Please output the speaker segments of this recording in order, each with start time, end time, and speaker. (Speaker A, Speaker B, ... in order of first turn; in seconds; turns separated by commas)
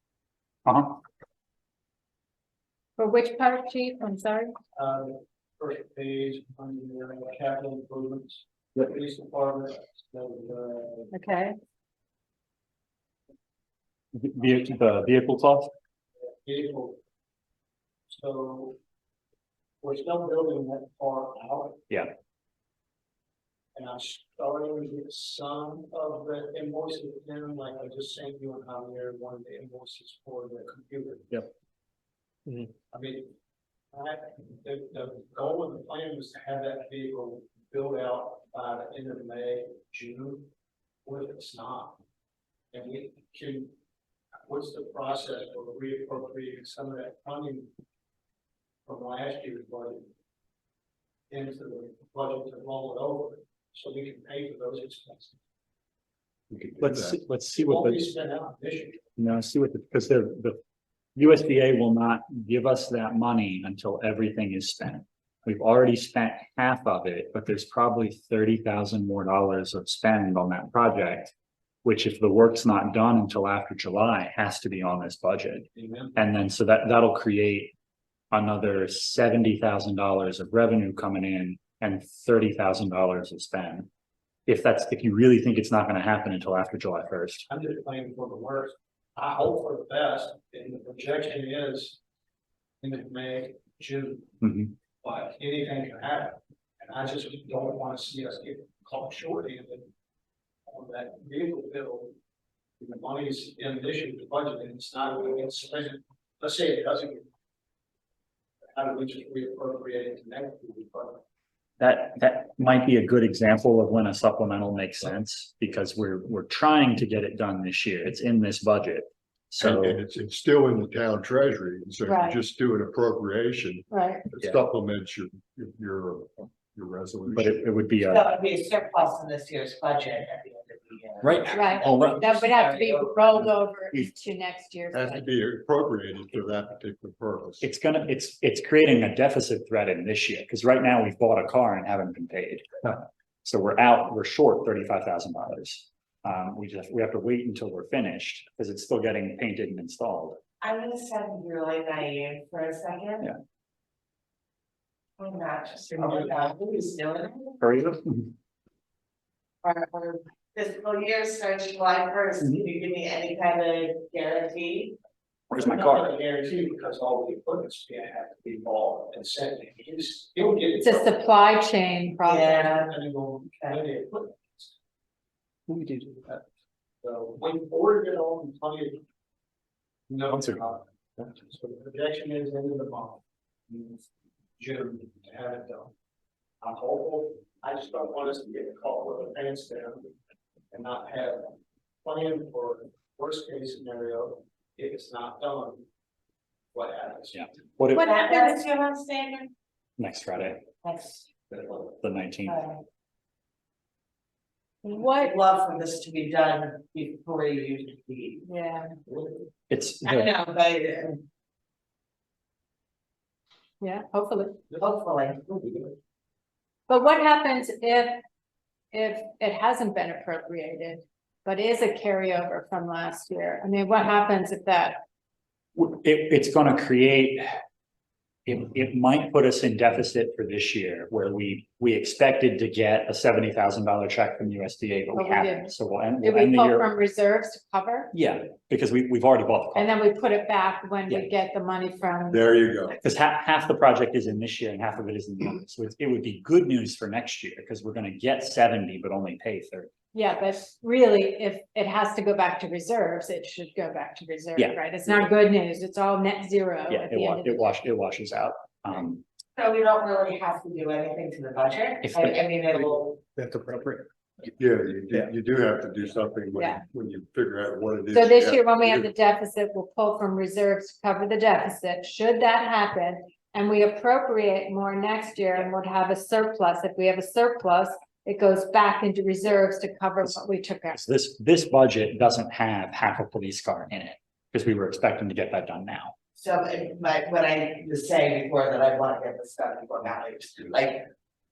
Speaker A: 0.7-0.9, Speaker B: 3.0-4.5, Speaker C: 4.7-11.1, Speaker B: 11.1-11.6, Speaker A: 14.1-15.7, Speaker C: 16.3-17.0, Speaker C: 18.1-18.8, Speaker C: 19.8-21.8, Speaker C: 23.7-31.4, Speaker C: 32.9-33.3, Speaker C: 33.9-40.5, Speaker C: 41.0-42.0, Speaker C: 42.7-43.7, Speaker C: 44.5-47.7, Speaker C: 48.9-50.1, Speaker C: 51.3-55.4, Speaker D: 56.5-57.2, Speaker A: 56.7-58.1, Speaker C: 57.5-59.1, Speaker A: 59.2-60.6, Speaker A: 61.1-71.3, Speaker A: 71.8-77.7, Speaker C: 75.7-76.2, Speaker A: 78.3-83.9, Speaker A: 84.5-87.5, Speaker C: 87.5-92.0, Speaker C: 92.8-94.4, Speaker A: 94.4-94.7, Speaker C: 95.0-99.9, Speaker C: 100.7-102.1, Speaker C: 102.8-107.3, Speaker C: 108.7-111.2, Speaker A: 111.8-120.0, Speaker D: 119.6-127.6, Speaker B: 122.0-122.4, Speaker B: 123.9-124.2, Speaker A: 127.3-128.4, Speaker E: 128.1-133.5, Speaker A: 131.2-132.4, Speaker B: 131.5-135.1, Speaker D: 134.9-137.6, Speaker A: 137.6-150.4, Speaker E: 150.6-153.3, Speaker E: 155.2-157.6, Speaker C: 156.0-156.3, Speaker A: 157.6-158.3, Speaker E: 159.6-164.9, Speaker A: 165.5-166.1, Speaker C: 165.5-171.3, Speaker B: 170.8-172.6, Speaker E: 172.2-172.9, Speaker C: 172.4-174.7, Speaker A: 175.7-176.2, Speaker C: 177.0-179.0, Speaker C: 180.1-184.0, Speaker C: 184.6-185.9, Speaker C: 186.6-190.1, Speaker C: 190.7-195.8, Speaker C: 196.7-197.5, Speaker A: 197.3-198.1, Speaker B: 197.9-198.5, Speaker E: 198.0-199.5, Speaker A: 200.0-200.7, Speaker E: 200.8-201.3, Speaker A: 201.5-202.6, Speaker E: 202.4-202.8, Speaker B: 204.9-205.3, Speaker E: 204.9-208.5, Speaker B: 208.5-208.8, Speaker A: 209.7-210.3, Speaker E: 210.0-211.2, Speaker B: 213.8-214.7, Speaker E: 214.7-215.9, Speaker B: 216.9-218.2, Speaker B: 218.9-225.0, Speaker A: 225.8-227.4, Speaker A: 228.4-236.9, Speaker B: 235.1-238.1, Speaker A: 238.1-239.9, Speaker B: 239.7-242.6, Speaker D: 242.3-243.0, Speaker A: 243.0-249.9, Speaker B: 250.1-257.6, Speaker A: 254.6-255.2, Speaker A: 256.9-259.2, Speaker E: 259.6-263.2, Speaker A: 262.0-262.4, Speaker A: 263.3-264.0, Speaker D: 264.5-269.1, Speaker B: 266.5-266.8, Speaker B: 268.1-281.0, Speaker A: 280.9-286.1, Speaker E: 286.4-291.1